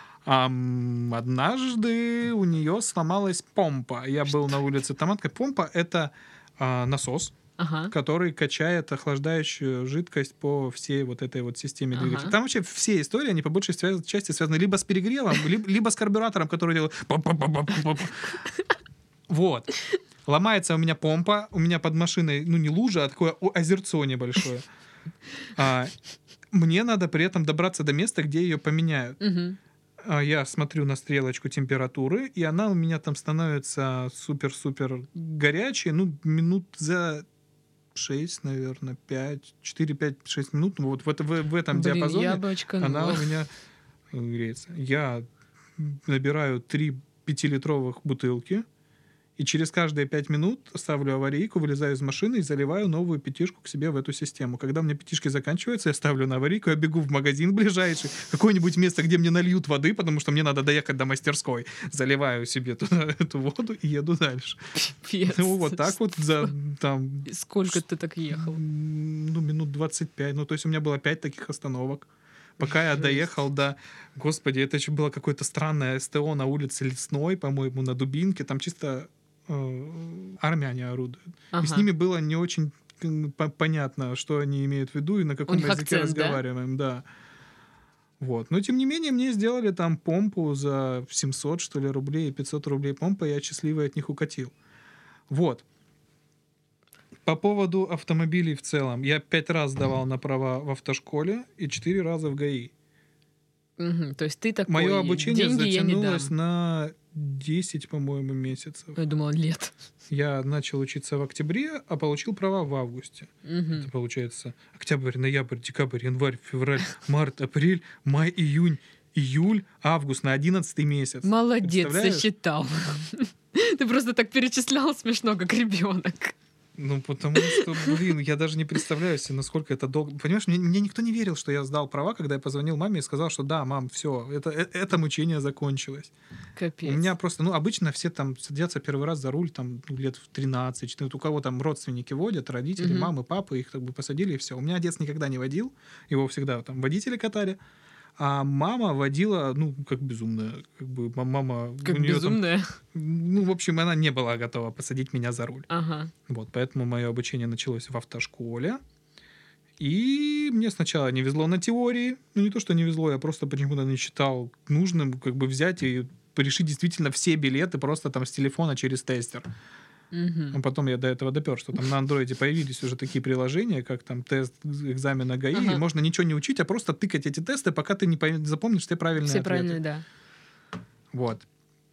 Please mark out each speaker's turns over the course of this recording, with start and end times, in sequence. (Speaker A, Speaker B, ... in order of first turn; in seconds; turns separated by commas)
Speaker A: 0.2-7.3, Speaker B: 7.6-7.9, Speaker A: 7.9-18.4, Speaker B: 11.9-12.4, Speaker A: 19.3-19.7, Speaker A: 20.2-24.7, Speaker A: 25.5-25.9, Speaker A: 26.5-29.2, Speaker B: 29.2-29.6, Speaker A: 30.0-37.2, Speaker A: 37.9-43.5, Speaker B: 41.7-43.4, Speaker A: 44.1-45.2, Speaker A: 45.8-48.6, Speaker A: 49.4-64.6, Speaker B: 64.8-66.5, Speaker A: 65.3-67.8, Speaker B: 67.2-68.6, Speaker A: 68.3-87.0, Speaker B: 72.7-73.2, Speaker B: 81.5-81.9, Speaker B: 85.5-86.4, Speaker A: 88.2-94.5, Speaker A: 95.3-95.6, Speaker A: 97.2-102.7, Speaker B: 103.8-106.3, Speaker A: 104.7-109.0, Speaker B: 109.0-109.7, Speaker A: 110.1-122.3, Speaker B: 113.5-113.9, Speaker B: 121.2-126.3, Speaker A: 126.8-136.1, Speaker B: 127.4-128.0, Speaker B: 136.6-137.1, Speaker A: 136.8-147.6, Speaker B: 142.8-143.1, Speaker A: 148.2-155.7, Speaker B: 151.8-152.8, Speaker B: 155.7-156.1, Speaker A: 156.3-158.8, Speaker A: 159.8-169.5, Speaker B: 170.1-170.6, Speaker A: 170.5-179.8, Speaker B: 175.5-175.8, Speaker B: 179.2-180.0, Speaker A: 181.1-181.5